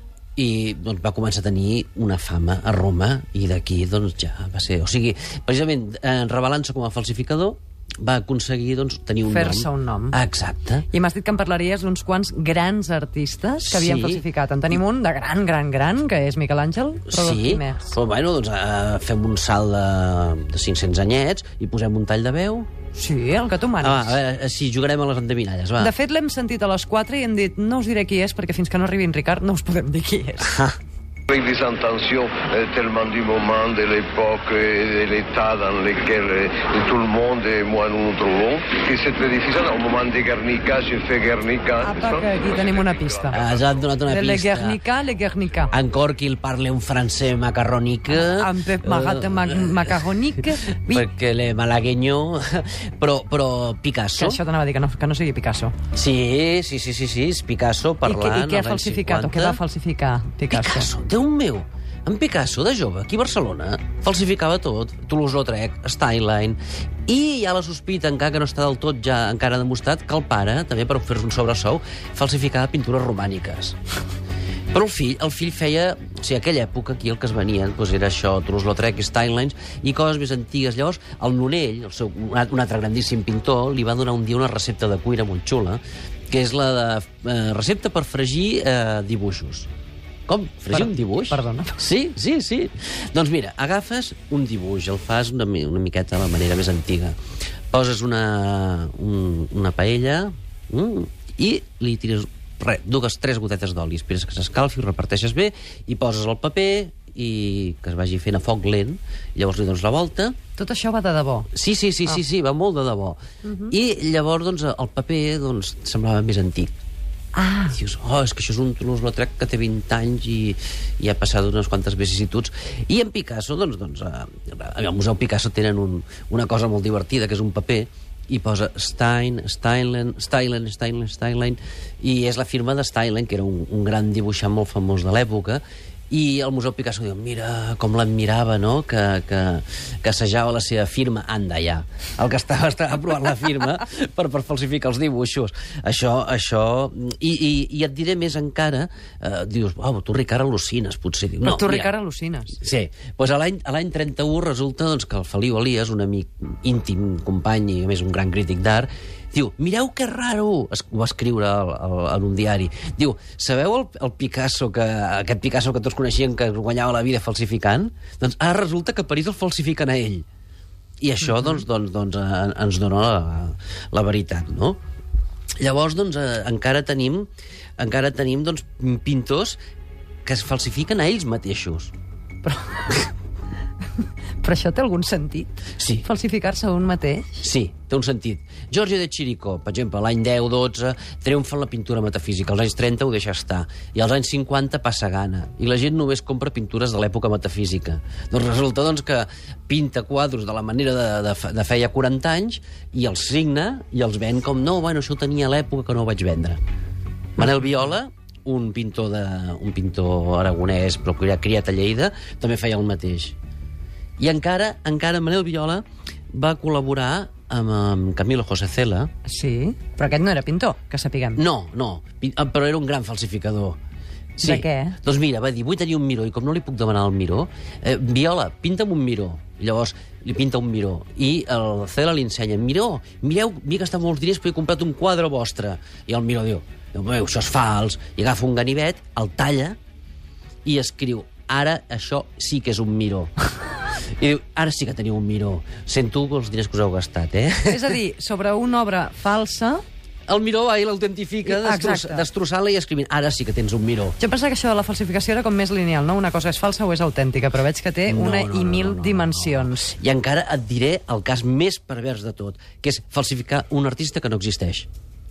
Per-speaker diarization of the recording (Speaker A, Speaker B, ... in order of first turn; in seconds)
Speaker A: 0.4-10.8, 13.7-14.2, 17.1-22.7, 23.8-25.9, 30.4-30.8, 43.3-44.8, 45.7-50.0, 50.9-54.4, 55.9-59.6, 60.5-73.8, 74.7-89.7, 90.3-97.2, 97.7-110.4, 111.5-116.7, 117.7-151.9, 152.5-170.2, 171.0-174.8, 175.6-177.3, 177.8-179.6, 180.2-181.9, 185.8-186.1, 187.4-206.6, 207.4-213.4, 214.2-219.1, 221.4-223.8, 224.4-239.8, 240.7-248.0, 250.3-254.2, 258.1-264.9
Speaker B: 9.2-10.2, 10.9-17.9, 22.9-24.2, 25.8-30.5, 41.8-43.4, 44.1-45.7, 48.1-51.0, 54.2-55.7, 58.0-60.9, 90.7-91.8, 110.6-111.5, 117.3-117.8, 151.4-152.6, 182.4-183.1, 184.4-185.5, 186.0-187.3, 219.3-221.4, 224.4-225.0, 247.7-249.8, 251.4-252.3, 254.2-259.9
Speaker C: 31.3-43.6